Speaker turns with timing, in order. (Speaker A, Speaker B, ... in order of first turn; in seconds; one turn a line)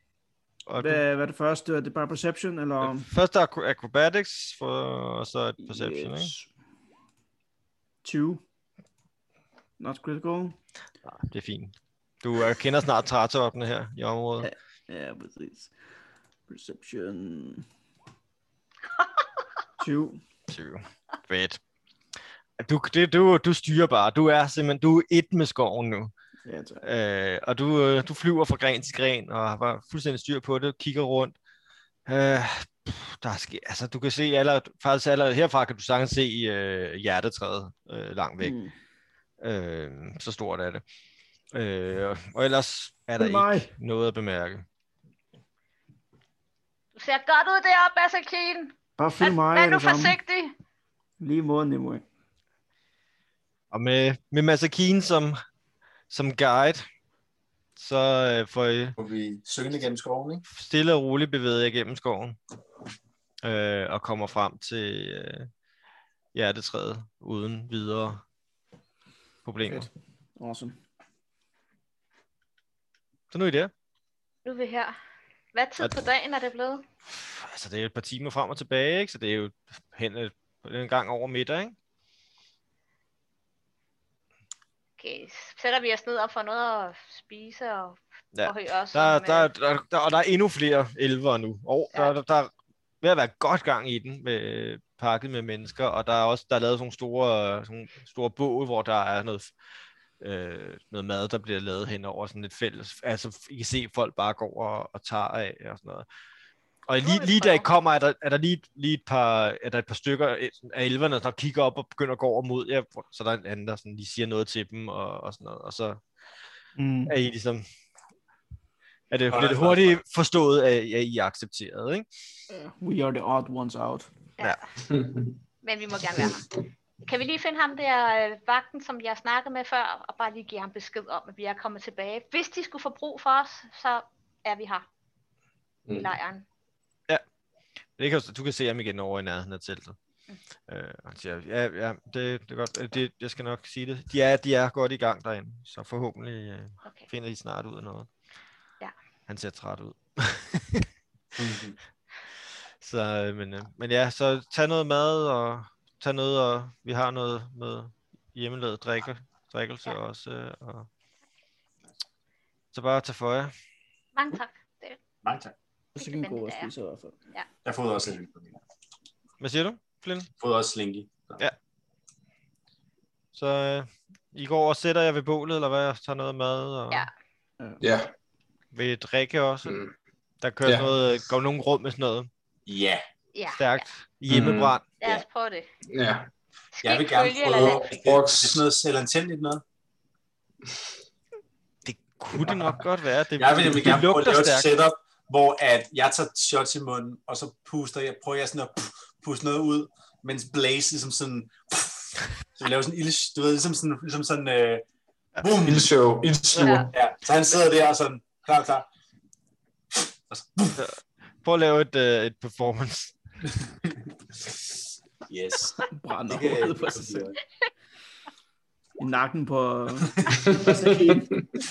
Speaker A: 0.7-1.0
Speaker B: 0.8-3.1
Speaker A: 2.8-6.3
Speaker B: 5.6-6.5
Speaker B: 8.0-8.4
Speaker B: 9.8-10.6
Speaker A: 11.2-14.5
Speaker B: 14.4-15.7
Speaker B: 16.5-17.6
Speaker B: 19.8-20.2
Speaker A: 20.5-21.6
Speaker A: 22.6-26.1
Speaker B: 26.4-26.8
Speaker A: 26.8-31.3
Speaker A: 32.1-38.5
Speaker B: 38.4-38.7
Speaker A: 39.4-40.8
Speaker A: 41.5-44.6
Speaker B: 43.2-43.7
Speaker C: 46.9-50.5
Speaker B: 49.0-50.2
Speaker B: 51.2-52.0
Speaker A: 53.7-55.4
Speaker A: 56.1-56.8
Speaker A: 57.8-59.0
Speaker D: 59.0-60.4
Speaker A: 60.5-62.4
Speaker A: 63.4-65.5
Speaker A: 66.3-68.2
Speaker A: 69.4-69.9
Speaker B: 69.7-70.8
Speaker A: 73.3-73.7
Speaker C: 74.4-74.9
Speaker C: 75.5-76.8
Speaker A: 77.1-81.8
Speaker C: 85.0-89.5
Speaker A: 88.3-92.5
Speaker A: 93.0-99.5
Speaker A: 100.2-106.0
Speaker A: 106.9-116.0
Speaker C: 107.0-107.7
Speaker B: 116.8-117.1
Speaker A: 117.0-117.6
Speaker A: 119.1-122.0
Speaker D: 119.3-120.0
Speaker B: 122.5-124.1
Speaker E: 124.9-125.3
Speaker C: 125.6-126.5
Speaker C: 127.0-134.8
Speaker C: 135.9-136.4
Speaker A: 138.0-140.0
Speaker A: 140.7-148.1
Speaker A: 149.3-150.8
Speaker D: 151.4-151.8
Speaker A: 152.8-160.9
Speaker A: 162.7-163.5
Speaker C: 164.1-165.0
Speaker D: 165.2-165.5
Speaker C: 165.9-166.7
Speaker B: 166.0-167.1
Speaker D: 167.6-168.6
Speaker A: 169.4-170.3
Speaker D: 170.4-171.4
Speaker A: 173.3-177.1
Speaker E: 177.8-178.1
Speaker A: 178.7-179.8
Speaker E: 179.7-179.9
Speaker A: 180.4-182.3
Speaker E: 180.6-180.9
Speaker D: 182.7-183.0
Speaker C: 183.3-183.8
Speaker A: 183.5-184.8
Speaker E: 184.3-184.8
Speaker C: 185.0-185.7
Speaker E: 185.9-186.3
Speaker C: 186.8-187.9
Speaker D: 186.8-189.6
Speaker E: 187.9-188.6
Speaker A: 191.8-194.7
Speaker D: 193.4-204.8
Speaker D: 205.4-205.9
Speaker E: 205.6-206.9
Speaker C: 206.6-206.9
Speaker D: 206.9-208.9
Speaker D: 209.9-210.8
Speaker A: 210.8-213.1
Speaker D: 215.3-217.4
Speaker B: 215.9-217.3
Speaker B: 219.0-221.0
Speaker D: 220.2-221.2
Speaker E: 220.3-221.6